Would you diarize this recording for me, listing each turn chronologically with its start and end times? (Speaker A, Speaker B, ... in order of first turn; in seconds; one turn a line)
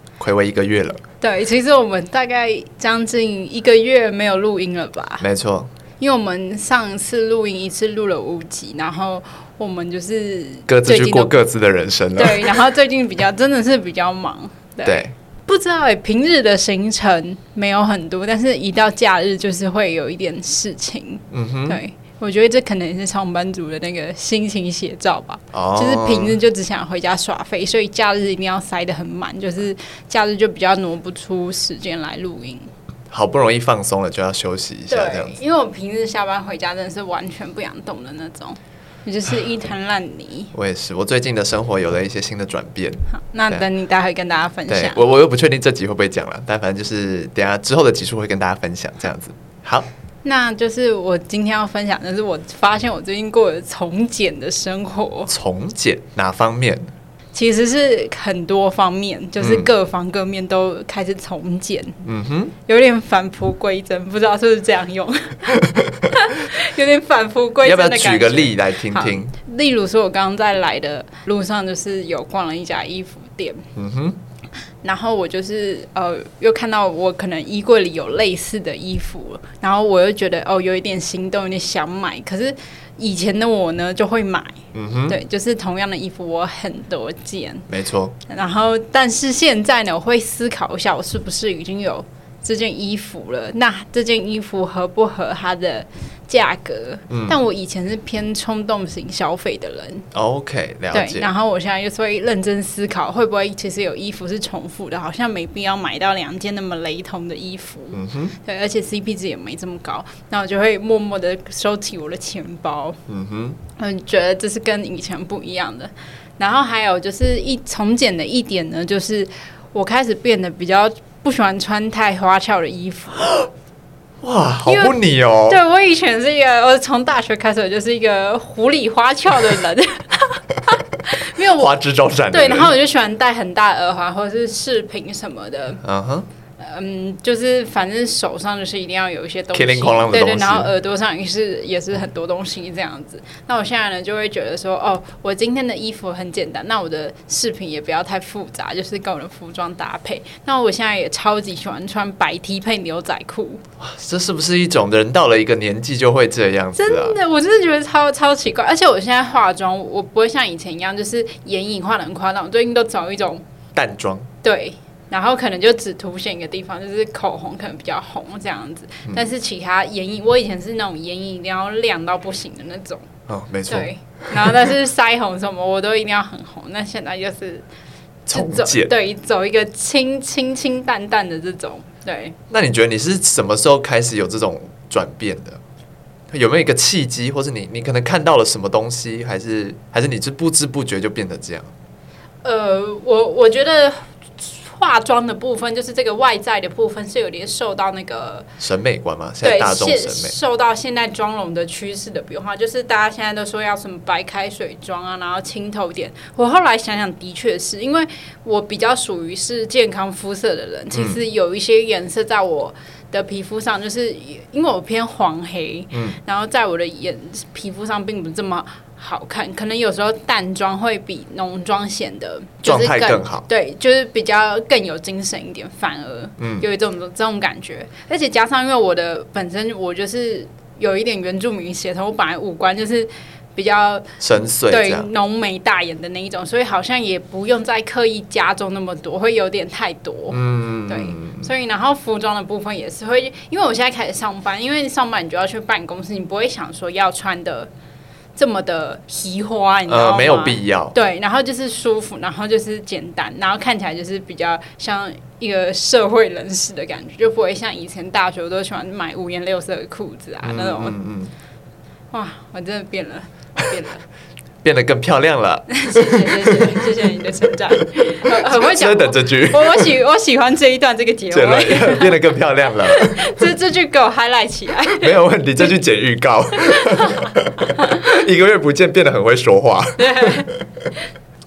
Speaker A: 0.2-1.0
Speaker B: 1.2-5.3
Speaker A: 5.2-5.7
Speaker B: 6.0-11.3
Speaker A: 10.7-12.6
Speaker B: 12.2-32.7
Speaker A: 14.8-15.1
Speaker A: 21.3-21.8
Speaker A: 25.5-26.4
Speaker A: 33.1-35.4
Speaker B: 34.9-40.5
Speaker A: 40.5-43.7
Speaker B: 43.1-45.0
Speaker A: 44.7-49.9
Speaker B: 50.2-55.3
Speaker A: 55.3-56.9
Speaker B: 57.3-62.0
Speaker A: 59.4-59.7
Speaker A: 62.0-62.5
Speaker B: 62.7-73.7
Speaker A: 65.5-66.1
Speaker A: 67.6-69.4
Speaker A: 73.8-74.2
Speaker B: 74.8-87.7
Speaker A: 84.7-85.2
Speaker A: 87.7-88.1
Speaker B: 88.3-100.1
Speaker A: 97.1-97.4
Speaker A: 100.1-101.3
Speaker B: 100.9-113.0
Speaker A: 107.9-108.3
Speaker A: 113.1-113.6
Speaker B: 113.8-123.5
Speaker A: 124.2-125.6
Speaker B: 124.7-125.0
Speaker B: 125.5-131.7
Speaker A: 131.4-132.7
Speaker B: 132.3-135.8
Speaker A: 135.8-136.3
Speaker B: 136.6-153.6
Speaker A: 139.5-140.7
Speaker A: 153.8-157.2
Speaker B: 156.8-163.4
Speaker A: 163.8-164.3
Speaker B: 164.4-173.1
Speaker A: 173.3-174.7
Speaker B: 173.7-177.7
Speaker A: 178.3-178.9
Speaker B: 178.3-182.3
Speaker A: 182.5-185.6
Speaker A: 186.3-191.7
Speaker B: 192.4-198.5
Speaker A: 198.6-200.4
Speaker B: 199.4-234.1
Speaker A: 210.9-211.2
Speaker A: 215.9-216.2
Speaker A: 222.6-223.5
Speaker A: 226.4-226.7
Speaker A: 234.2-235.1
Speaker B: 234.7-247.7
Speaker A: 240.3-241.5
Speaker B: 248.4-261.0
Speaker A: 249.9-251.0
Speaker A: 260.4-261.3
Speaker B: 262.1-264.0
Speaker A: 264.6-266.6
Speaker B: 265.7-272.2
Speaker A: 268.4-269.9
Speaker A: 271.3-273.4
Speaker B: 272.9-275.7
Speaker A: 275.0-280.6
Speaker B: 276.6-278.0
Speaker B: 280.0-281.0